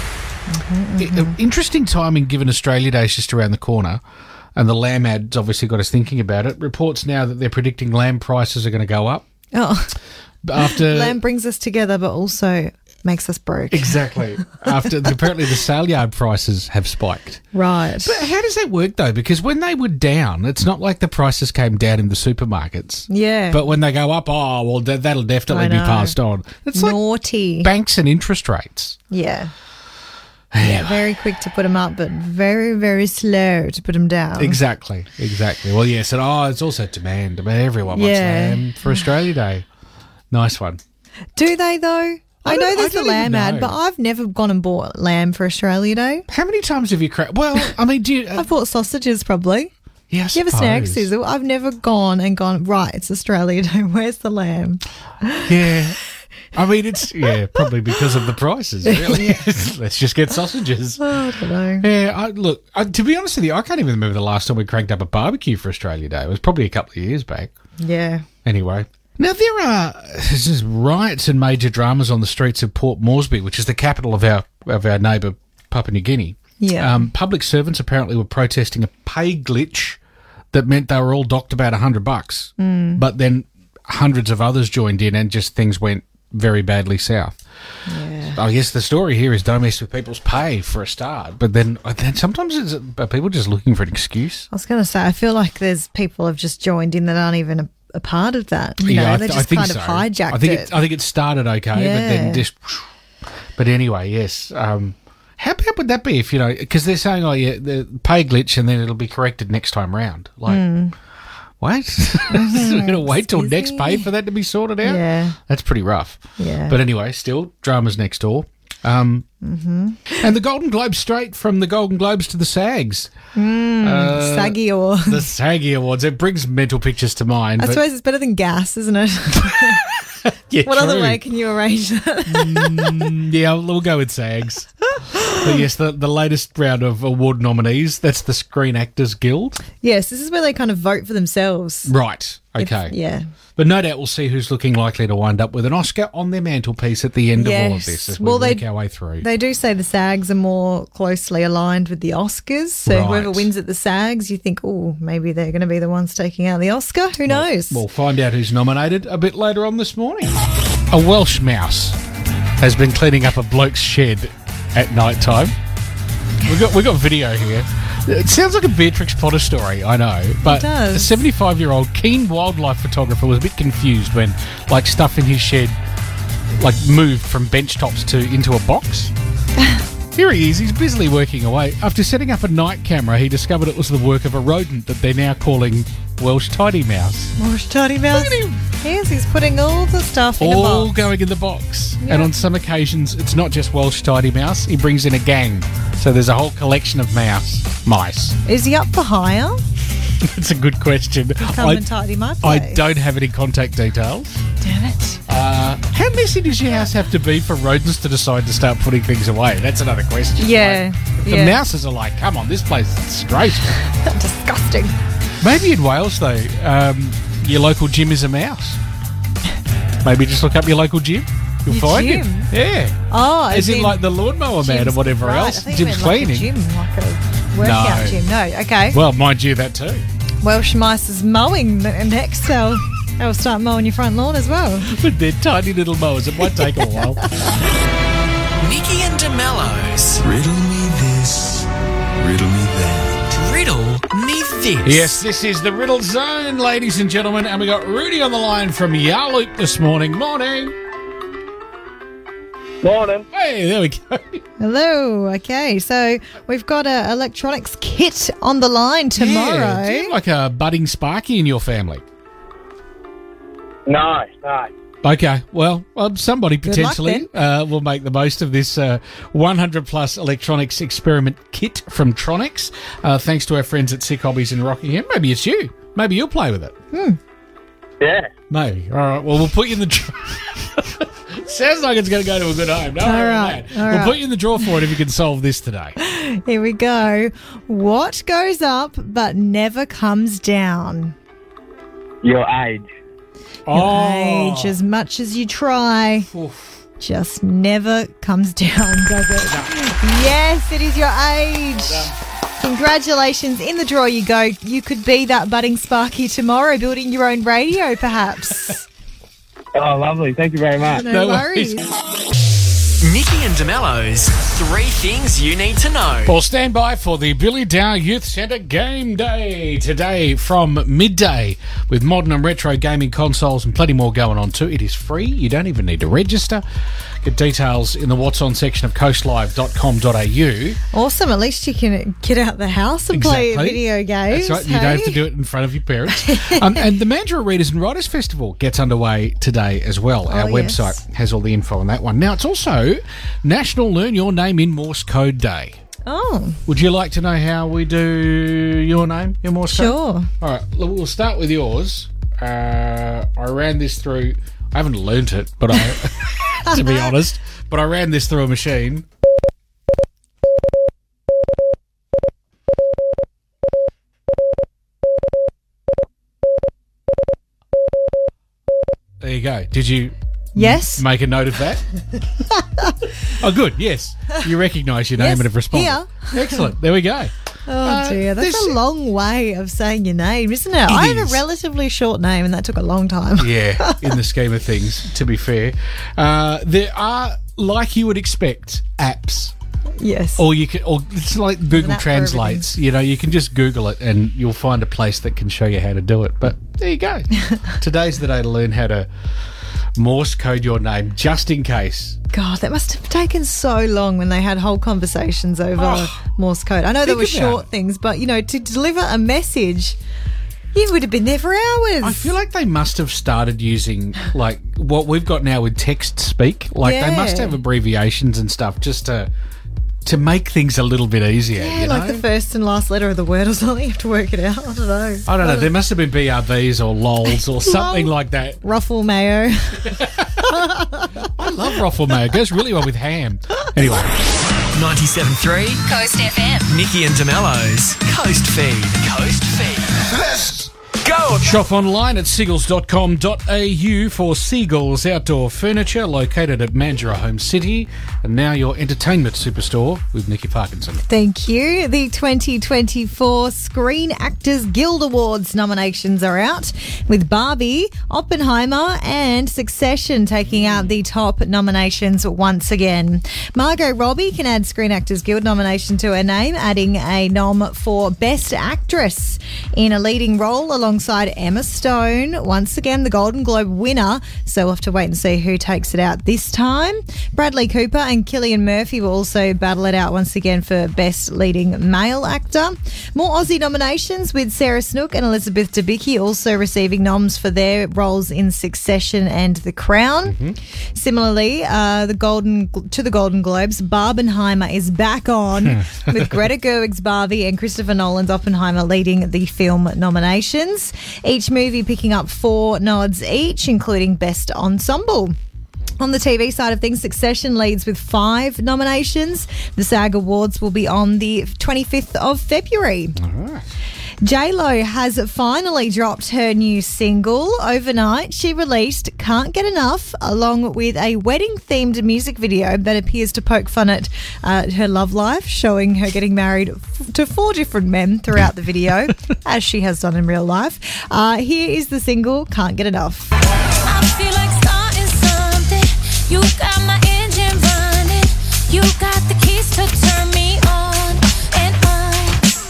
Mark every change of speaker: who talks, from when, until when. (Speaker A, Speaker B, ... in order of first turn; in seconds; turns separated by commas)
Speaker A: 0.5-1.4, Speaker B: 1.0-4.0, Speaker B: 4.5-9.2, Speaker A: 9.5-10.0, Speaker B: 10.4-11.2, Speaker A: 10.6-14.6, Speaker B: 13.7-17.4, Speaker A: 17.5-18.2, Speaker B: 18.0-27.0, Speaker A: 23.1-23.6, Speaker A: 25.5-26.1, Speaker A: 26.7-27.7, Speaker B: 27.6-29.0, Speaker A: 29.1-29.5, Speaker B: 30.5-31.1, Speaker A: 30.6-34.6, Speaker B: 34.4-39.6, Speaker A: 37.9-39.0, Speaker B: 40.3-40.8, Speaker A: 41.4-46.2, Speaker B: 42.4-43.7, Speaker B: 46.3-48.5, Speaker A: 48.3-49.7, Speaker B: 50.1-51.1, Speaker A: 50.3-55.5, Speaker B: 55.5-56.0, Speaker B: 56.5-61.0, Speaker A: 58.8-59.5, Speaker A: 61.0-61.9, Speaker B: 61.8-67.5, Speaker A: 67.8-68.2, Speaker B: 68.4-80.0, Speaker A: 76.6-77.1, Speaker B: 80.5-87.3, Speaker A: 82.6-83.0, Speaker A: 87.9-88.4, Speaker B: 88.2-94.5, Speaker A: 94.5-100.7, Speaker B: 98.8-102.9, Speaker A: 101.7-102.4, Speaker B: 103.6-110.6, Speaker A: 110.5-110.9, Speaker B: 111.6-119.2, Speaker A: 112.3-114.1, Speaker A: 114.8-115.4, Speaker A: 116.4-116.8, Speaker A: 119.4-120.3, Speaker B: 120.2-123.1, Speaker A: 123.3-125.3, Speaker B: 123.8-127.8, Speaker A: 127.6-129.8, Speaker B: 130.5-131.2, Speaker A: 130.6-133.1, Speaker B: 132.3-134.7, Speaker A: 135.0-135.6, Speaker B: 135.3-139.6, Speaker A: 139.8-141.9, Speaker B: 141.8-142.9, Speaker A: 142.6-143.2, Speaker B: 143.6-149.2, Speaker A: 147.3-148.7, Speaker A: 149.2-157.8, Speaker B: 152.8-153.5, Speaker B: 157.2-160.4, Speaker B: 160.9-162.0, Speaker B: 162.6-165.5, Speaker B: 166.4-175.7, Speaker A: 170.4-171.1, Speaker B: 176.6-179.1, Speaker B: 180.1-187.3, Speaker A: 187.4-190.9, Speaker B: 188.1-188.6, Speaker B: 190.4-198.3, Speaker A: 192.0-192.3, Speaker A: 198.4-199.6, Speaker B: 200.2-201.8, Speaker A: 201.4-202.8, Speaker B: 202.4-204.4, Speaker A: 204.6-205.2, Speaker B: 205.3-213.8, Speaker A: 210.4-211.6, Speaker A: 213.8-214.9, Speaker B: 215.4-218.8, Speaker B: 220.0-223.0, Speaker A: 221.7-222.5, Speaker A: 223.1-224.0, Speaker B: 223.5-226.5, Speaker A: 224.6-229.0, Speaker B: 227.6-228.2, Speaker B: 228.9-230.0, Speaker A: 230.4-235.0, Speaker B: 234.9-237.5, Speaker C: 238.6-240.2, Speaker D: 240.2-243.3, Speaker C: 243.3-245.1, Speaker B: 244.8-250.7, Speaker E: 252.8-253.2, Speaker B: 253.3-254.4, Speaker A: 254.6-260.1, Speaker B: 259.1-262.0, Speaker E: 263.9-264.7, Speaker B: 265.0-276.7, Speaker A: 266.6-267.3, Speaker A: 276.9-277.2, Speaker E: 278.0-278.3, Speaker B: 278.5-286.0, Speaker A: 283.0-284.8, Speaker A: 286.0-291.1, Speaker E: 292.2-292.9, Speaker B: 293.7-294.7, Speaker A: 293.7-296.3, Speaker B: 296.3-296.7, Speaker A: 297.0-308.9, Speaker B: 299.4-299.7, Speaker B: 301.8-302.1, Speaker E: 309.7-311.0, Speaker A: 310.9-311.8, Speaker B: 311.1-311.9, Speaker C: 313.0-316.3, Speaker B: 316.2-326.6, Speaker B: 327.2-330.8, Speaker A: 330.9-335.2, Speaker B: 333.1-345.8, Speaker A: 336.1-336.9, Speaker A: 340.2-340.9, Speaker A: 346.1-346.6, Speaker B: 346.7-359.0, Speaker A: 349.7-350.3, Speaker A: 356.6-357.1, Speaker B: 369.2-371.9, Speaker A: 370.5-371.0, Speaker A: 372.6-372.8, Speaker B: 373.3-378.8, Speaker A: 375.2-376.7, Speaker A: 377.6-384.1, Speaker B: 380.9-381.4, Speaker B: 383.4-389.5, Speaker A: 390.0-390.4, Speaker B: 390.4-399.1, Speaker A: 391.7-392.7, Speaker B: 400.0-402.2, Speaker A: 402.3-410.0, Speaker B: 405.8-406.1, Speaker B: 407.0-407.6, Speaker A: 410.7-412.3, Speaker B: 412.0-419.3, Speaker A: 416.8-417.6, Speaker B: 420.0-422.2, Speaker A: 421.5-425.7, Speaker B: 425.3-428.6, Speaker A: 427.4-431.3, Speaker B: 430.0-430.4, Speaker B: 431.2-434.1, Speaker C: 434.7-435.8, Speaker F: 435.9-436.7, Speaker C: 436.7-440.1, Speaker C: 441.0-441.5, Speaker B: 441.4-451.0, Speaker A: 451.1-490.4, Speaker B: 460.5-460.9, Speaker B: 490.3-490.6, Speaker A: 490.9-505.4, Speaker A: 506.0-513.2, Speaker B: 513.2-513.6, Speaker A: 514.2-533.3, Speaker F: 533.8-542.5